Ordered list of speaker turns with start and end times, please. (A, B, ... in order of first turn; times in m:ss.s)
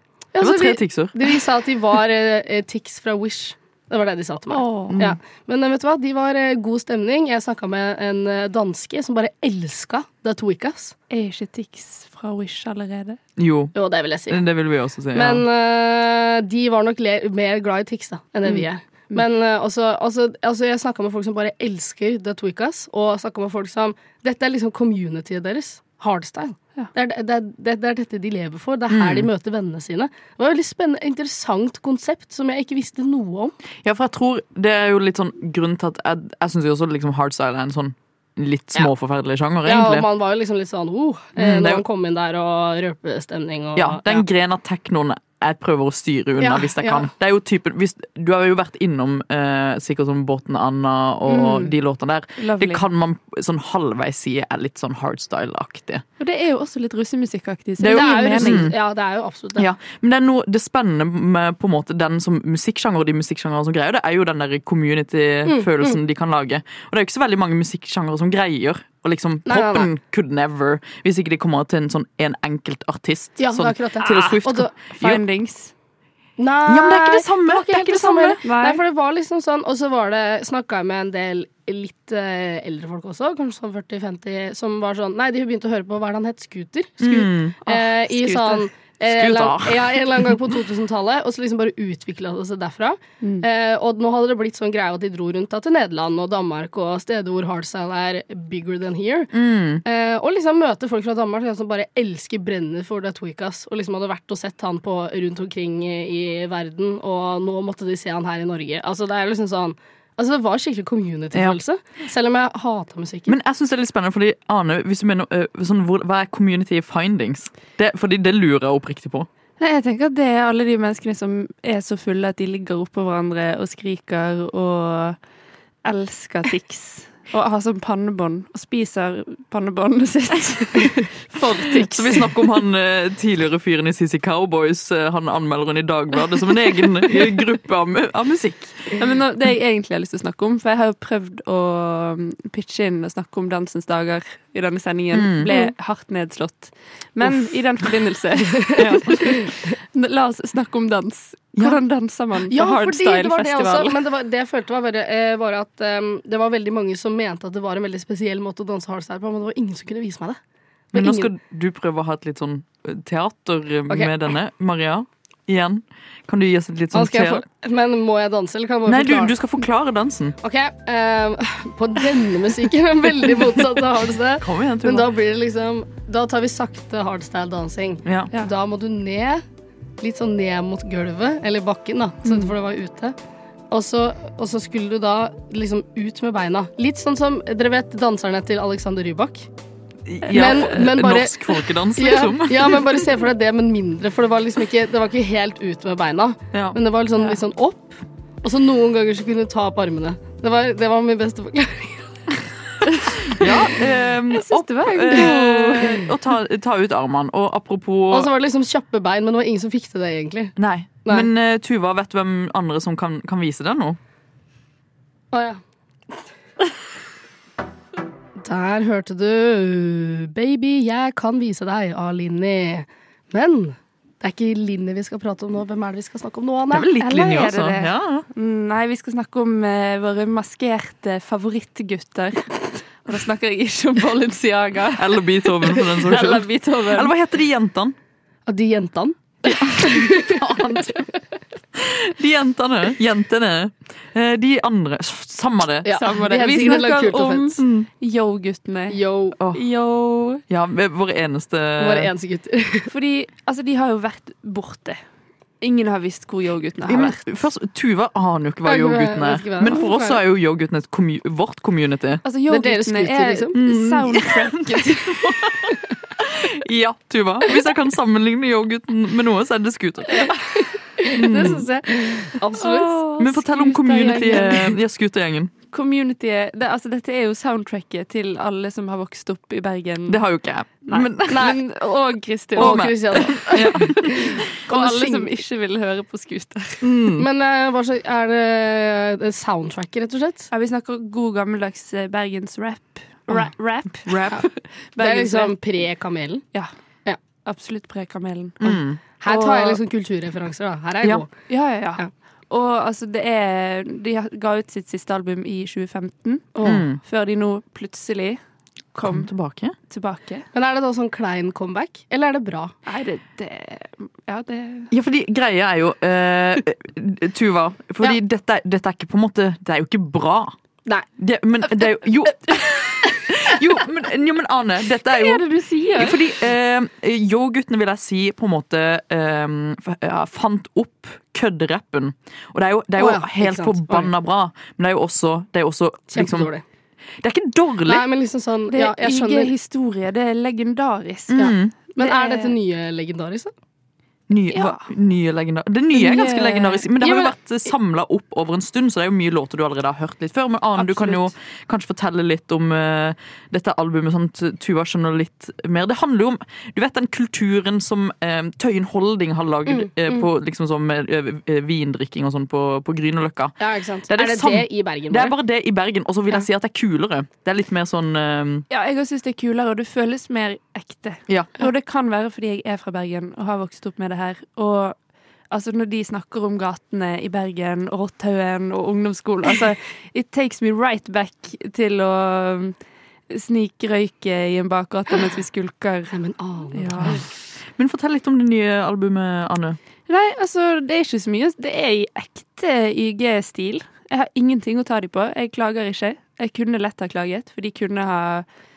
0:00.3-0:10.9 A
0:00.4-0:01.2 B
0:04.5-0:05.0 C
0:11.1-0:13.2 C
0:13.4-0:13.7 B
0:13.7-0:14.4 A
0:14.3-0:15.4 B
0:15.1-0:33.5 A
0:18.4-0:19.2 C
0:28.9-0:29.3 B
0:33.8-0:40.0 B
0:39.6-0:44.2 A
0:41.4-0:41.8 B
0:43.8-0:56.0 B
0:46.4-0:47.1 A
0:51.3-0:51.7 C
0:52.4-0:52.8 C
0:56.2-0:58.7 C
0:57.8-0:58.7 B
0:57.9-0:59.6 A
0:59.6-1:15.2 B
1:05.4-1:06.0 A
1:09.5-1:09.9 A
1:13.4-1:14.7 A
1:14.9-1:15.7 C
1:16.4-1:39.3 A
1:16.7-1:18.4 B
1:18.4-1:18.8 C
1:27.0-1:27.6 B
1:27.7-1:28.7 C
1:29.0-1:30.3 B
1:39.3-1:39.8 B
1:39.8-1:53.3 A
1:53.3-1:59.3 B
1:59.6-2:05.2 C
2:05.8-2:12.3 C
2:11.4-2:18.9 B
2:19.0-2:34.0 C
2:25.1-2:25.7 B
2:28.8-2:29.3 B
2:32.5-2:40.4 A
2:40.9-2:41.3 A
2:40.9-2:47.4 B
2:46.9-2:49.3 A
2:48.9-2:50.4 B
2:50.4-2:59.4 A
2:54.4-2:55.1 B
2:58.0-2:58.3 B
3:00.0-3:03.2 A
3:03.7-3:09.5 A
3:10.0-3:12.9 B
3:10.3-3:22.1 A
3:23.3-3:28.3 B
3:24.3-3:26.1 C
3:28.1-3:30.5 A
3:30.6-3:34.0 B
3:35.3-3:35.6 A
3:38.4-3:46.9 A
3:46.7-3:48.2 B
3:47.0-3:57.1 C
3:55.0-3:57.9 B
3:58.5-4:00.6 A
3:59.6-4:01.1 B
4:01.8-4:05.9 B
4:05.8-4:07.6 A
4:05.9-4:09.0 C
4:07.6-4:07.9 B
4:08.9-4:09.4 A
4:09.5-4:10.4 C
4:10.5-4:12.1 B
4:11.8-4:12.9 A
4:12.9-4:15.0 C
4:15.6-4:17.4 C
4:16.9-4:22.2 B
4:18.6-4:20.2 A
4:22.2-4:25.7 C
4:22.5-4:23.5 A
4:23.6-4:30.3 B
4:30.1-4:33.0 A
4:31.1-4:31.6 B
4:32.5-4:34.8 C
4:33.2-4:35.5 B
4:34.1-4:34.6 A
4:35.7-4:40.2 C
4:40.1-4:41.4 B
4:40.8-4:44.1 C
4:41.3-4:41.6 A
4:42.5-4:45.3 A
4:42.6-4:44.1 B
4:44.7-4:46.8 C
4:46.8-4:47.2 B
4:47.2-4:50.5 A
4:50.5-4:55.5 C
4:54.0-4:54.4 B
4:55.0-4:56.4 A
4:57.4-4:59.8 C
4:58.6-4:59.0 B
4:59.2-5:01.3 A
5:01.5-5:08.4 C
5:06.5-5:06.8 A
5:06.6-5:07.0 B
5:08.9-5:09.3 C
5:09.0-5:09.8 B
5:09.9-5:10.4 C
5:10.5-5:12.7 A
5:12.8-5:14.9 C
5:14.9-5:20.5 B
5:21.2-5:25.4 B
5:25.1-5:26.2 C
5:26.0-5:36.5 B
5:33.0-5:34.1 A
5:36.1-5:36.6 A
5:37.2-5:38.0 B
5:37.8-5:39.5 A
5:38.7-5:42.5 C
5:41.3-5:41.7 B
5:41.3-5:43.5 A
5:44.3-6:03.6 B
5:44.5-5:44.8 C
5:45.9-5:46.9 C
5:47.0-5:47.3 A
5:50.8-5:51.3 C
5:59.7-6:00.2 A
6:03.6-6:05.3 A
6:04.1-6:08.6 B
6:08.7-6:15.0 C
6:11.3-6:11.5 B
6:15.5-6:22.8 C
6:23.3-6:26.1 C
6:26.1-6:27.2 A
6:26.7-6:27.2 C
6:27.8-6:29.8 B
6:30.1-6:38.4 C